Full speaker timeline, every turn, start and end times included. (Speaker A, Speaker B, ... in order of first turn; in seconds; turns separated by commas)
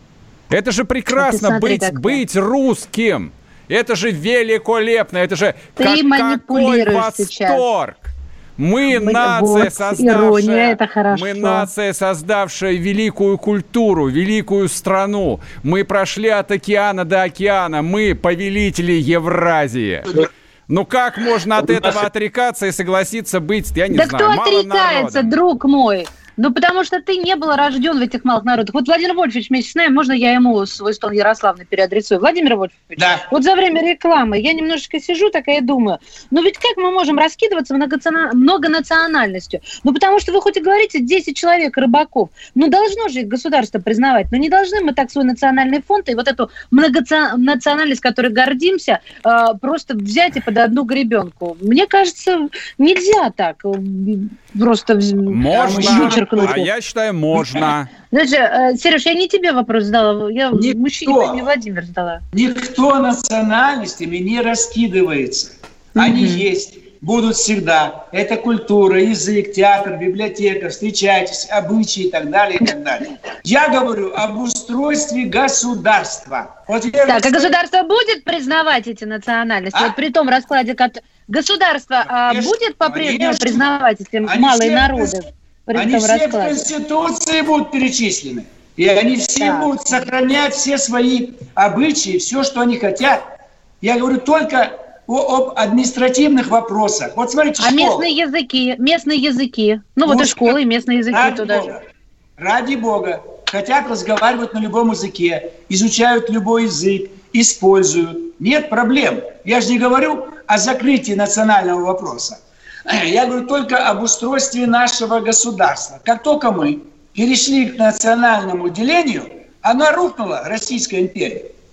Speaker A: 0.5-25.3, Speaker B: 1.1-2.2, Speaker B: 5.8-7.6, Speaker B: 8.9-11.7, Speaker B: 23.9-56.6, Speaker C: 33.0-33.3, Speaker A: 55.3-57.9, Speaker C: 55.5-56.6, Speaker B: 58.0-62.2, Speaker C: 60.5-61.4, Speaker C: 62.3-77.5, Speaker B: 66.0-66.4, Speaker B: 77.1-86.6, Speaker C: 82.2-83.7, Speaker C: 84.2-85.2, Speaker C: 85.7-93.2, Speaker B: 89.4-89.7, Speaker C: 93.8-98.1, Speaker B: 97.6-101.7, Speaker C: 100.0-100.6, Speaker C: 101.1-101.8, Speaker C: 102.4-121.5